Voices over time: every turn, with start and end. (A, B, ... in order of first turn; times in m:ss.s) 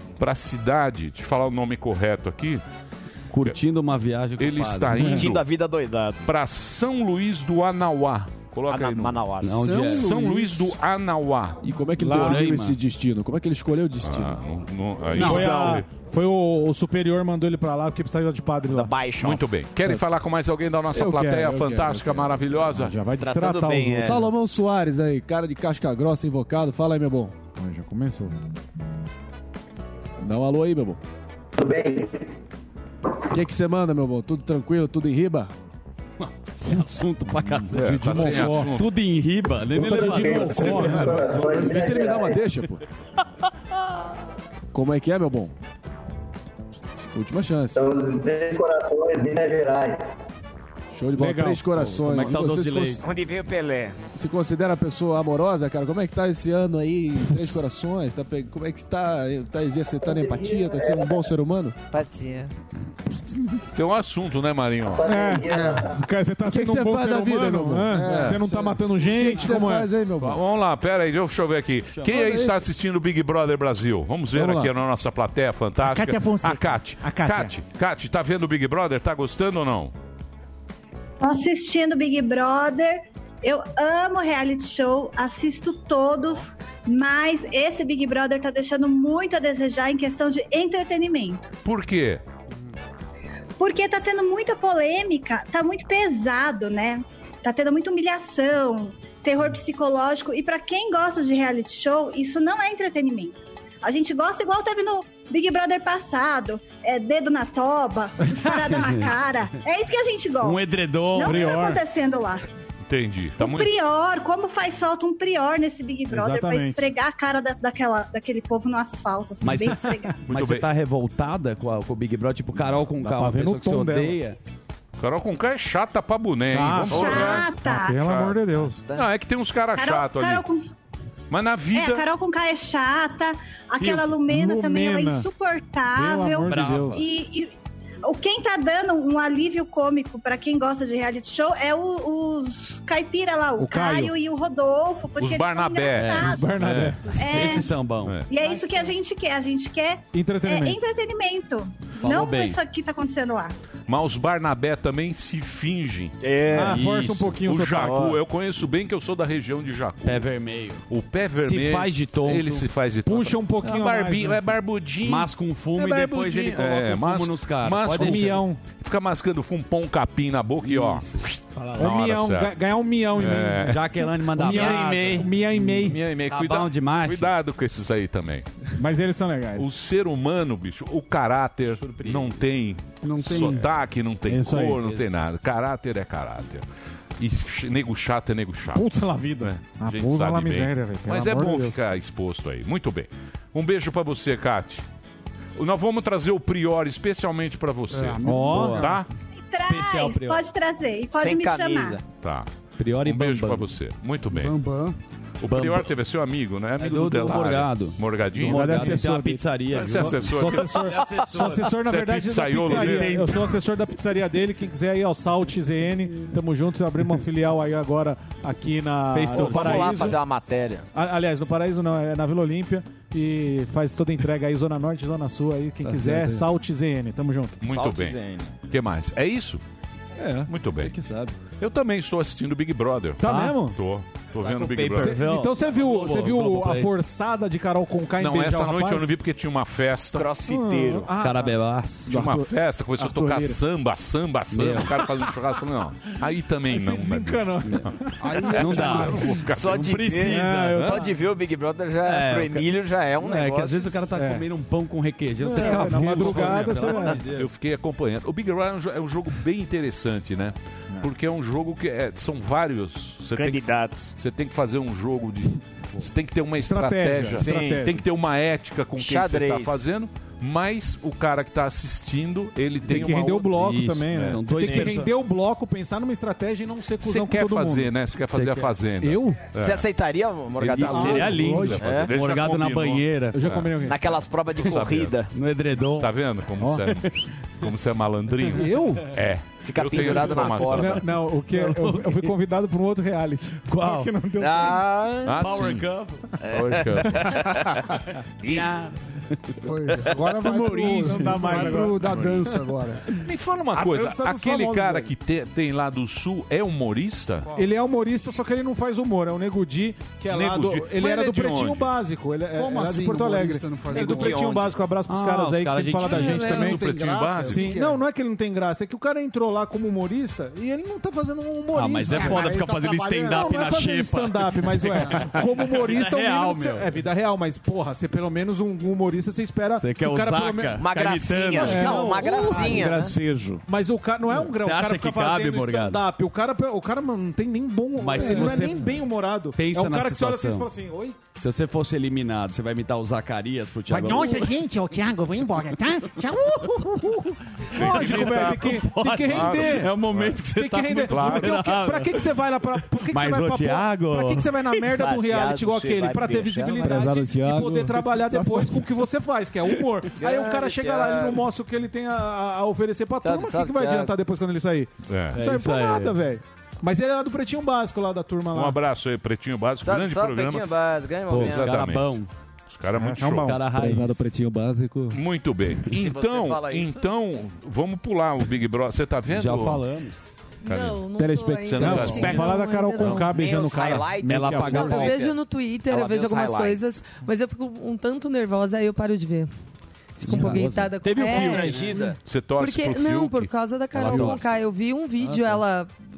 0:00.2-0:02.6 A
0:03.3-0:05.3 B
0:04.4-0:05.5 A
0:05.1-0:06.2 C
0:06.2-0:09.3 A
0:08.7-0:09.7 C
0:09.4-0:10.2 B
0:09.5-0:10.7 D
0:09.9-0:11.6 A
0:11.6-0:14.4 E
0:12.0-0:12.4 F
0:12.1-0:12.7 B
0:14.0-0:15.9 A
0:15.1-0:18.9 F
0:15.1-0:15.6 D
0:18.6-0:19.4 C
0:19.2-0:23.0 A
0:20.9-0:22.5 E
0:22.7-0:24.3 F
0:23.2-0:24.2 C
0:24.0-0:27.3 E
0:27.6-0:28.3 F
0:30.2-0:31.0 E
0:31.6-0:32.3 G
0:33.3-0:35.5 E
0:36.2-0:41.5 B
0:37.4-0:38.7 F
0:37.7-0:38.9 A
0:39.7-0:41.5 F
0:40.2-0:42.4 G
0:40.6-0:42.8 E
0:44.7-0:45.5 E
0:47.1-0:47.8 E
0:47.7-0:50.1 G
0:50.9-0:53.0 E
0:51.2-0:52.3 F
0:51.9-0:53.0 B
0:53.0-0:54.0 C
0:54.1-1:01.8 E
1:00.0-1:01.2 G
1:01.9-1:02.4 C
1:03.7-1:05.1 A
1:04.9-1:06.0 G
1:05.0-1:09.9 F
1:06.4-1:10.4 E
1:07.9-1:08.4 D
1:08.1-1:08.4 A
1:10.2-1:19.9 A
1:14.3-1:14.7 F
1:15.9-1:17.5 H
1:15.9-1:16.5 F
1:17.0-1:17.4 F
1:21.2-1:31.5 I
1:31.6-1:32.2 A
1:33.6-1:52.4 I
1:48.8-1:49.1 B
1:50.4-1:51.8 B
1:51.2-1:51.8 F
1:52.8-1:53.7 A
1:53.4-2:00.2 I
1:56.1-1:56.8 F
1:59.4-2:04.4 B
2:00.2-2:00.7 A
2:03.0-2:04.2 F
2:05.0-2:10.4 A
2:06.5-2:08.8 F
2:06.9-2:08.0 I
2:09.7-2:10.7 I
2:11.3-2:12.0 A
2:11.7-2:17.5 I
2:13.8-2:15.3 F
2:15.9-2:17.0 F
2:16.4-2:17.0 B
2:18.0-2:26.5 I
2:23.6-2:24.1 F
2:25.2-2:27.1 A
2:25.9-2:28.2 B
2:26.2-2:27.0 F
2:27.1-2:27.8 I
2:28.3-2:33.5 I
2:30.1-2:30.8 F
2:32.0-2:32.6 B
2:33.9-2:36.1 A
2:36.2-2:36.8 C
2:36.5-2:37.4 B
2:36.5-2:38.1 F
2:37.4-2:40.3 A
2:37.8-2:38.2 C
2:40.0-2:40.8 B
2:40.9-2:52.6 A
2:41.4-2:42.7 B
2:43.0-2:44.4 F
2:45.0-2:48.4 B
2:47.9-2:48.6 F
2:50.6-2:51.9 B
2:51.8-2:53.8 F
2:53.1-2:53.8 A
2:53.3-2:55.3 B
2:54.3-2:56.0 F
2:54.4-2:58.4 A
2:55.8-2:57.3 B
2:58.8-2:59.7 F
2:59.6-3:06.6 A
3:01.7-3:02.4 B
3:03.0-3:03.7 D
3:04.2-3:04.8 F
3:04.7-3:05.2 B
3:07.2-3:14.8 A
3:08.7-3:11.8 F
3:15.6-3:19.1 A
3:17.9-3:19.0 D
3:18.2-3:18.9 F
3:18.5-3:18.9 B
3:19.4-3:22.0 I
3:19.6-3:20.5 B
3:21.1-3:22.0 C
3:22.2-3:24.5 A
3:22.8-3:23.7 B
3:24.3-3:25.0 D
3:25.4-3:29.0 A
3:25.5-3:25.9 B
3:26.8-3:31.8 B
3:28.4-3:40.2 F
3:29.7-3:30.7 A
3:31.7-3:33.2 A
3:32.6-3:33.4 B
3:39.1-3:40.2 B
3:39.3-3:40.9 C
3:40.9-3:47.6 F
3:45.8-3:46.4 E
3:47.6-3:49.6 A
3:47.6-3:48.6 C
3:50.2-3:51.4 E
3:50.5-3:50.9 A
3:51.5-3:55.2 A
3:53.2-3:53.8 F
3:53.2-3:53.6 B
3:54.4-3:54.9 C
3:54.6-3:56.9 B
3:54.9-3:59.1 F
3:58.2-4:00.3 A
4:00.1-4:01.1 C
4:00.5-4:03.6 F
4:01.1-4:02.2 B
4:02.1-4:07.5 A
4:04.5-4:05.0 B
4:06.7-4:09.3 F
4:08.2-4:09.3 D
4:08.5-4:10.1 A
4:08.5-4:11.1 B
4:09.5-4:13.9 C
4:10.2-4:11.1 F
4:12.0-4:17.5 B
4:14.1-4:14.4 F
4:15.4-4:17.2 F
4:16.6-4:34.4 A
4:23.3-4:24.0 C
4:26.6-4:28.0 F
4:27.4-4:27.8 C
4:29.0-4:29.8 C
4:32.8-4:37.9 F
4:33.0-4:35.1 B
4:34.6-4:35.0 C
4:37.0-4:39.9 A
4:38.3-4:38.7 B
4:39.0-4:39.4 F
4:39.5-4:42.1 C
4:40.6-4:43.7 A
4:40.7-4:43.4 B
4:40.8-4:41.8 F
4:43.3-4:44.0 F
4:43.8-4:45.3 C
4:44.6-4:45.2 A
4:45.3-4:46.1 B
4:46.0-4:51.0 A
4:46.6-4:46.9 F
4:48.5-4:49.1 F
4:49.6-4:51.0 C
4:50.2-4:50.4 B
4:50.6-4:54.9 F
4:51.5-4:52.3 B
4:53.7-4:54.1 B
4:54.4-4:55.5 C
4:55.2-4:55.9 A
4:55.3-4:57.0 B
4:56.4-4:57.5 C
4:56.6-4:57.1 A
4:58.4-4:58.7 C
4:58.4-4:58.9 B
4:59.6-5:03.1 D
5:00.4-5:02.4 F
5:03.2-5:07.5 A
5:03.7-5:05.1 F
5:07.5-5:16.8 F
5:10.3-5:11.9 A
5:12.5-5:14.5 D
5:14.3-5:14.7 C
5:15.1-5:16.7 B
5:16.1-5:18.0 D
5:16.4-5:17.8 A
5:17.4-5:22.6 F
5:21.7-5:26.9 B
5:22.1-5:23.6 D
5:23.3-5:30.8 F
5:24.8-5:25.3 D
5:29.8-5:33.0 B
5:30.8-5:33.1 C
5:31.6-5:41.2 F
5:32.8-5:33.6 E
5:34.3-5:36.0 B
5:38.0-5:39.0 B
5:39.5-5:40.7 B
5:41.4-5:44.7 B
5:43.9-5:46.7 H
5:45.5-5:46.2 B
5:47.7-6:08.8 F
5:47.7-5:50.4 A
5:47.8-5:52.3 B
5:51.0-5:51.6 A
5:53.0-5:54.7 B
5:54.9-5:56.9 C
5:56.8-5:58.8 E
6:00.2-6:01.4 C
6:03.2-6:04.1 C
6:05.1-6:05.4 A
6:05.3-6:06.2 B
6:08.5-6:10.7 A
6:09.8-6:11.8 C
6:11.3-6:12.3 B
6:11.3-6:13.6 A
6:13.0-6:13.7 F
6:13.4-6:14.3 B
6:13.7-6:15.2 E
6:15.1-6:19.8 A
6:15.9-6:17.0 C
6:19.2-6:20.2 B
6:20.6-6:23.4 J
6:20.6-6:22.5 A
6:21.2-6:25.1 F
6:21.9-6:22.3 B
6:23.3-6:25.4 C
6:24.2-6:25.2 B
6:24.7-6:29.5 J
6:25.9-6:27.0 C
6:30.2-6:32.1 B
6:30.2-6:30.9 E
6:30.2-6:31.8 J
6:31.2-6:32.2 C
6:32.2-6:33.5 A
6:32.6-6:35.9 J
6:33.9-6:34.5 B
6:34.0-6:34.5 E
6:35.2-6:35.6 E